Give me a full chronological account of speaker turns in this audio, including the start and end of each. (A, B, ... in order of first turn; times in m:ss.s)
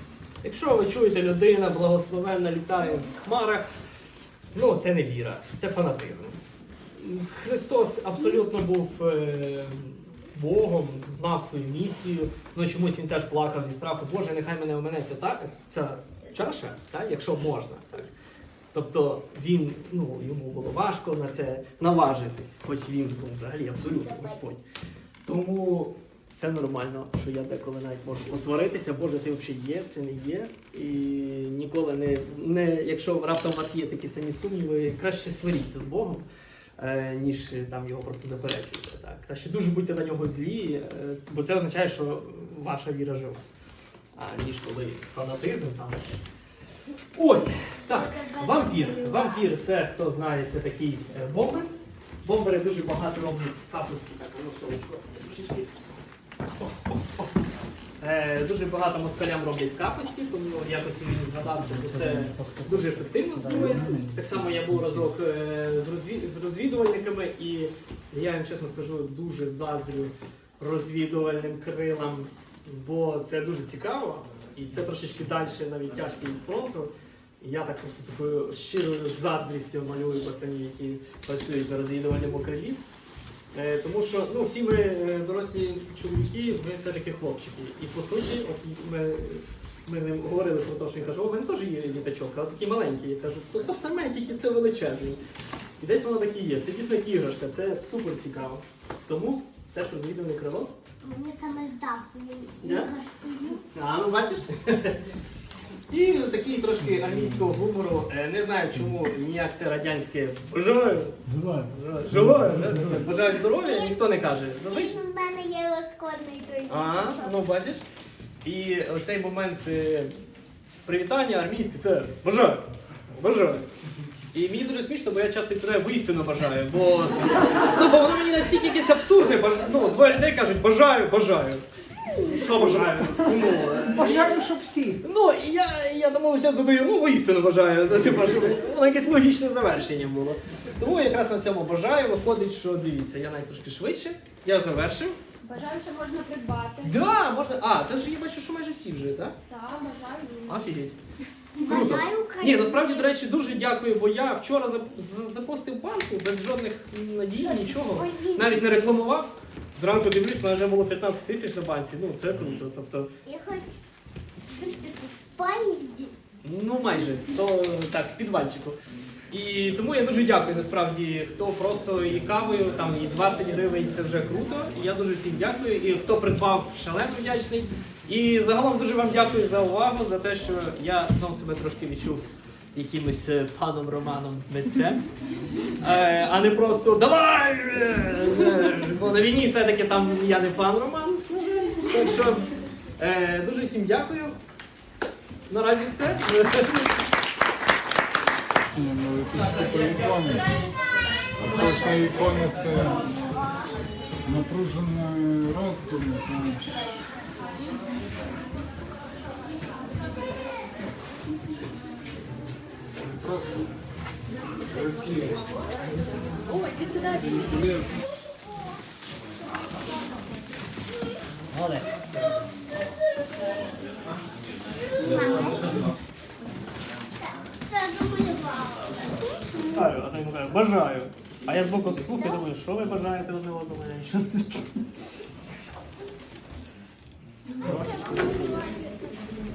0:00.4-0:03.8 A
0:04.5-0:06.4 A
0:07.0-0:18.1 A
0:18.7-0:24.6 A
0:24.0-0:24.4 B
0:25.2-0:36.2 A
0:36.8-0:43.4 A
0:44.2-0:46.0 A
0:47.1-0:51.7 A
0:47.9-0:49.5 B
0:52.2-0:57.3 A
0:58.0-1:22.8 A
1:01.6-1:05.1 C
1:23.5-1:35.2 A
1:35.8-1:40.7 A
1:41.0-1:43.6 B
1:42.6-1:42.9 A
1:43.7-1:45.0 A
1:45.9-1:55.0 A
1:51.3-1:53.1 C
1:53.1-1:54.0 B
1:54.6-1:57.4 B
1:56.7-1:57.8 A
1:58.4-2:00.2 A
2:00.9-2:03.7 A
2:04.3-2:14.4 A
2:13.9-2:15.0 C
2:15.0-2:25.2 A
2:25.4-2:27.4 D
2:26.8-2:29.4 A
2:29.5-2:30.6 D
2:30.5-2:31.0 A
2:31.6-2:33.1 B
2:31.6-2:43.1 A
2:37.4-2:39.0 B
2:43.2-2:43.7 B
2:44.5-2:46.1 B
2:46.4-2:48.8 A
2:49.3-3:05.0 A
3:05.8-3:12.5 A
3:13.0-3:14.4 A
3:15.5-3:16.9 A
3:18.8-3:19.3 E
3:19.3-3:20.3 A
3:21.5-3:22.2 A
3:22.3-3:22.8 E
3:24.3-3:26.7 E
3:36.7-3:37.2 D
3:41.5-3:42.0 C
3:45.0-3:45.7 B
3:45.0-3:45.9 C
3:47.2-3:49.1 B
3:49.7-3:54.6 A
3:57.8-3:58.5 B